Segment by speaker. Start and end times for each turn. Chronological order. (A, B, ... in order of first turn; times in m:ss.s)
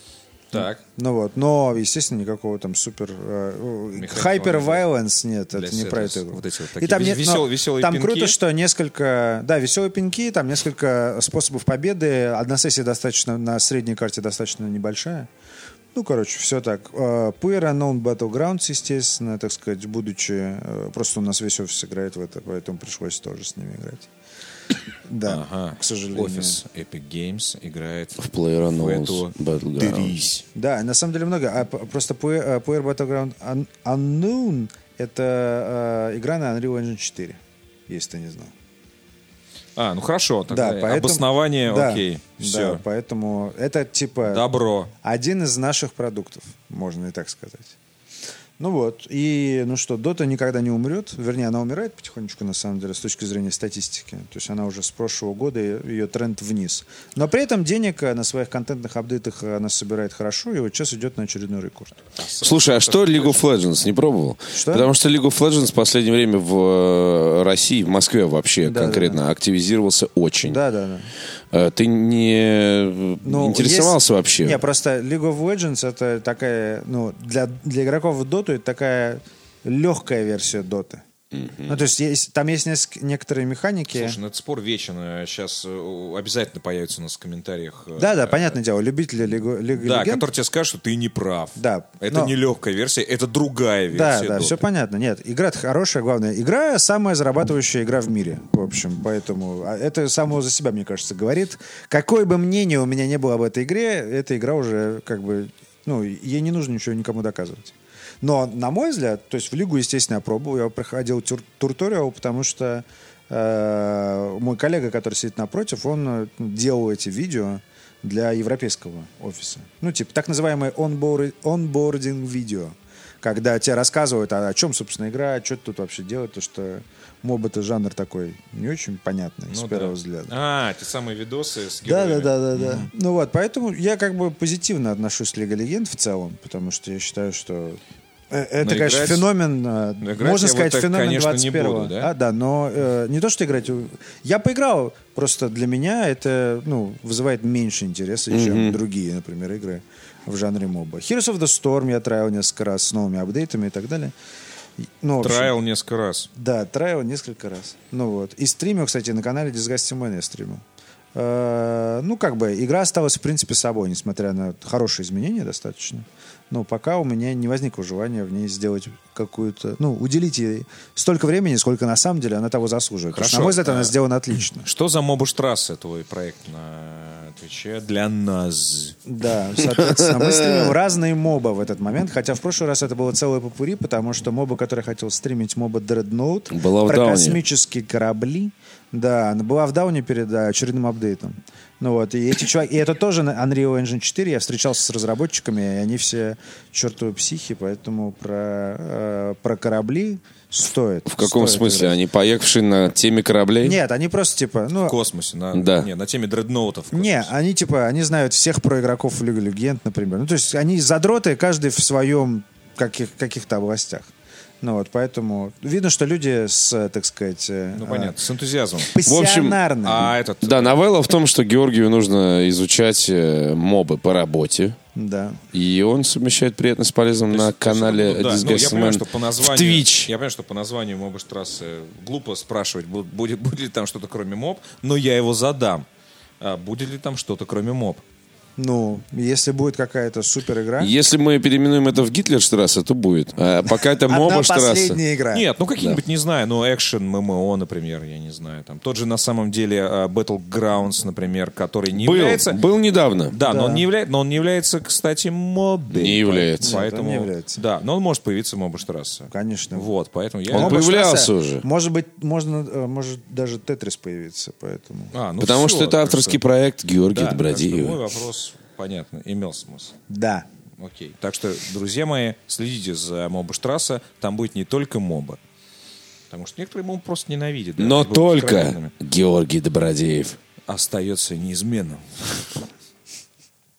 0:00.5-0:00.8 A
0:00.5-0:15.3 B
0:03.9-0:04.8 A
0:05.5-0:08.4 A
0:15.9-0:24.1 B
0:25.1-0:26.6 B
0:25.3-0:30.4 A
0:28.2-0:30.2 C
0:30.5-0:38.5 B
0:39.8-0:42.8 A
0:40.5-0:44.4 B
0:44.2-0:44.9 A
0:45.0-0:47.8 B
0:48.6-1:02.0 B
1:02.2-1:03.4 A
1:02.4-1:10.6 C
1:04.6-1:04.9 B
1:08.6-1:09.2 B
1:10.4-1:11.1 B
1:11.5-1:14.6 C
1:13.2-1:21.0 B
1:21.4-1:21.7 C
1:21.7-1:24.2 B
1:23.9-1:28.6 A
1:28.0-1:30.3 B
1:29.8-1:34.6 A
1:31.6-1:32.4 B
1:33.9-2:10.3 B
2:09.5-2:12.9 A
2:11.8-2:34.2 B
2:18.6-2:19.3 A
2:20.0-2:22.1 A
2:28.3-2:28.8 C
2:34.8-2:35.5 B
2:35.2-2:36.3 A
2:36.4-2:54.7 B
2:53.1-2:54.0 A
2:54.6-2:59.0 A
2:59.1-3:22.0 B
2:59.7-3:00.6 C
3:06.5-3:07.4 C
3:21.1-3:23.8 C
3:23.6-3:25.0 B
3:24.8-3:27.3 A
3:25.5-3:25.9 C
3:26.9-3:38.2 B
3:37.7-3:39.0 A
3:38.9-3:40.2 B
3:39.0-3:39.6 C
3:39.8-3:40.8 A
3:40.4-3:44.8 C
3:45.0-3:45.4 B
3:45.5-3:50.1 C
3:47.3-3:55.9 A
3:56.4-3:58.0 A
3:58.6-4:00.9 B
4:00.8-4:05.0 C
4:03.7-4:05.5 B
4:05.3-4:12.6 A
4:12.0-4:13.4 C
4:13.3-4:20.9 A
4:13.4-4:13.9 B
4:15.9-4:16.8 C
4:16.6-4:17.6 B
4:19.3-4:19.9 B
4:20.5-4:25.1 B
4:20.5-4:21.6 C
4:25.1-4:26.4 A
4:25.4-4:28.0 C
4:27.1-4:30.0 A
4:30.1-4:30.5 B
4:30.8-4:35.4 A
4:36.3-4:38.9 A
4:37.8-4:40.4 C
4:40.7-4:42.4 A